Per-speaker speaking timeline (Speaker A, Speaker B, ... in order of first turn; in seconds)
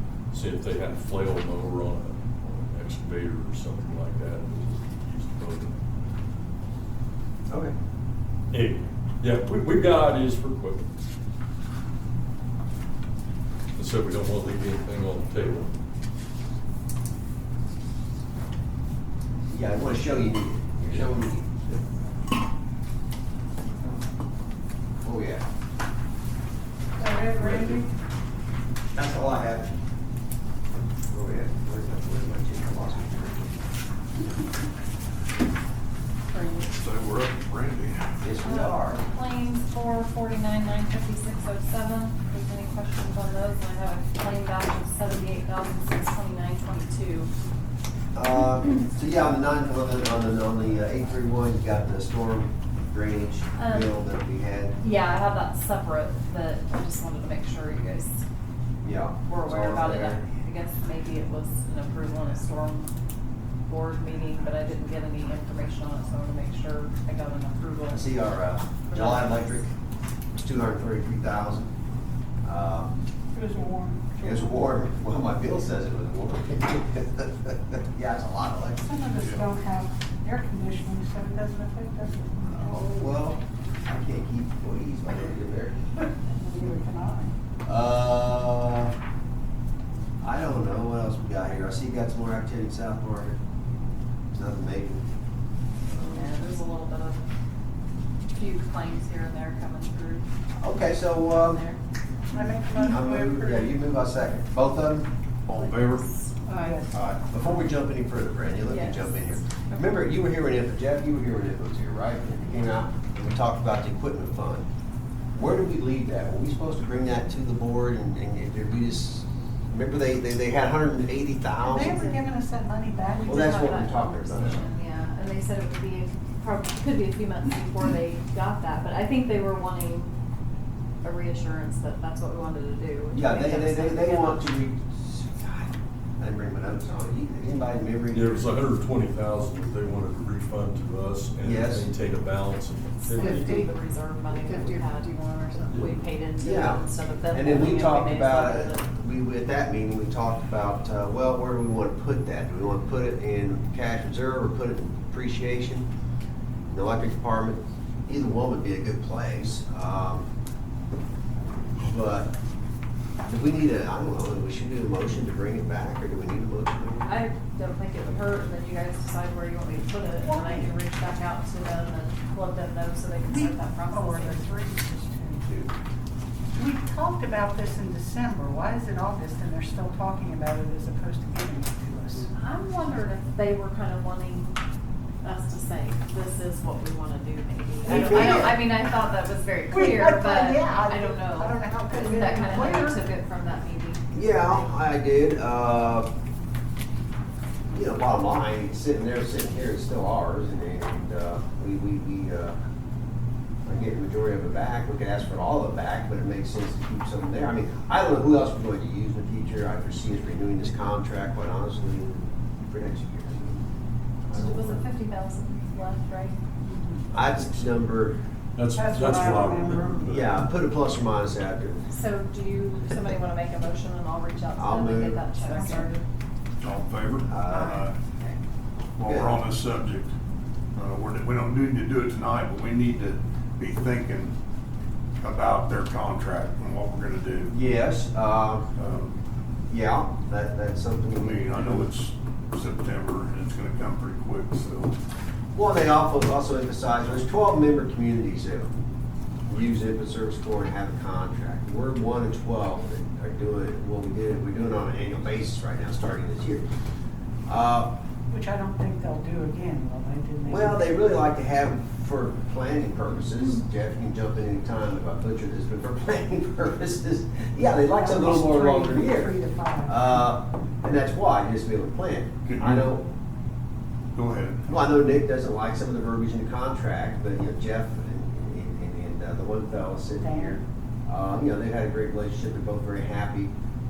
Speaker A: 0.3-5.8, 8.5-10.9, 13.8-15.7, 138.1-143.7, 218.6-220.5
Speaker B: 7.5-7.7, 19.5-21.8, 25.0-25.4, 27.3-27.8, 28.9-29.7, 31.1-33.6, 38.2-39.1, 48.1-54.8, 58.8-60.2, 67.9-69.7, 70.3-71.7, 72.4-73.0, 74.2-78.9, 82.5-86.0, 87.7-88.9, 90.2-93.4, 94.3-95.1, 95.9-96.5, 100.6-101.6, 102.8-105.1, 107.2-114.7, 115.3-122.1, 123.2-124.7, 133.1-138.5, 141.4-141.9, 146.4-155.9, 156.7-160.2, 161.8-162.4, 163.2-167.1, 187.8-188.6, 194.1-196.1, 197.7-202.6, 203.7-213.7, 214.3-214.8, 217.1-218.2, 220.0-221.8, 224.6-225.2, 227.3-227.8, 229.1-229.4, 237.5-238.8, 239.7-241.9, 245.5-248.7, 249.5-256.7, 257.5-258.0, 260.4-273.1, 274.7-283.5
Speaker C: 27.0-27.9, 73.3-74.6, 78.8-82.9, 86.4-87.3, 102.3-103.8, 106.5-107.0, 121.6-123.5, 143.2-143.7, 144.4-145.4, 170.2-170.7, 173.3-175.7, 176.5-182.3, 188.1-188.5, 189.7-193.0, 216.6-217.1, 218.7-220.1, 225.4-226.0, 227.5-227.8, 258.3-260.9, 268.0-270.0, 280.2-280.6
Speaker D: 36.3-36.7, 38.4-47.3, 53.6-53.9, 54.8-58.2, 59.3-62.9, 63.7-68.1, 68.9-69.7, 96.1-97.3, 98.3-100.2, 101.2-101.8, 105.5-106.8, 108.7-109.9, 123.2-130.1, 131.0-134.5, 143.1-148.8, 167.0-174.4, 182.3-184.6, 185.2-194.7, 214.3-216.4, 221.9-226.0
Speaker E: 36.7-38.1, 226.6-227.9, 229.0-230.1, 230.8-234.3, 235.2-237.5, 238.8-239.2, 241.4-244.9, 274.1-274.6